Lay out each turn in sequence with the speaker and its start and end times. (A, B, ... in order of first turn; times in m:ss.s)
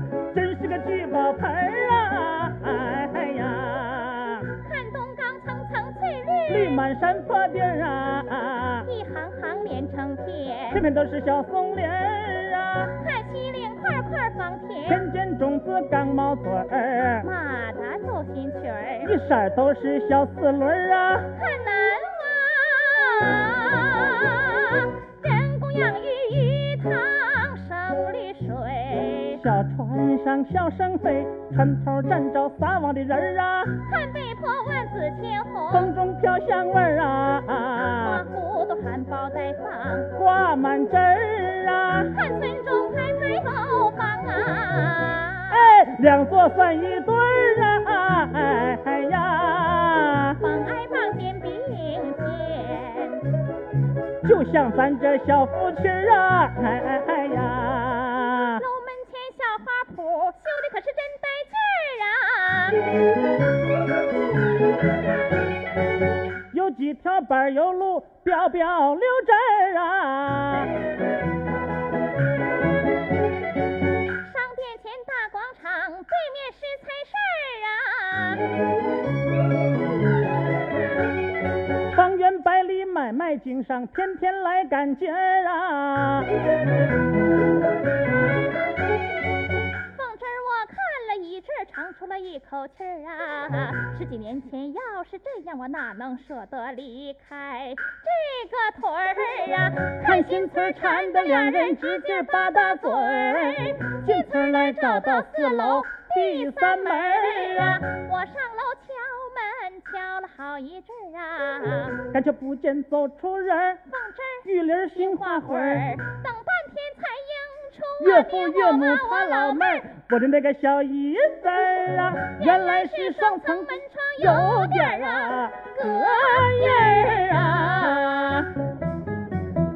0:00.3-0:04.5 A
0:04.6-0:06.8 B
0:06.5-0:08.9 A
0:08.8-0:10.8 B
0:10.7-0:12.9 A
0:13.0-0:15.0 B
0:14.8-0:17.3 A
0:17.2-0:19.1 B
0:19.0-0:21.3 A
0:21.3-0:29.4 B
0:29.3-0:33.8 A
0:33.8-0:35.9 B
0:35.7-0:38.2 A
0:37.9-0:40.1 B
0:40.2-0:42.1 A
0:42.1-0:45.6 B
0:45.5-0:50.4 A
0:50.4-0:53.3 B
0:54.2-0:58.6 A
0:58.6-1:02.8 B
1:06.5-1:10.7 A
1:14.2-1:18.4 B
1:21.9-1:26.3 A
1:29.9-1:52.0 B
1:40.0-1:47.8 A
1:52.1-1:53.8 A
1:53.9-1:59.9 B
1:54.4-1:55.9 A
1:58.0-2:06.7 A
2:02.4-2:08.5 B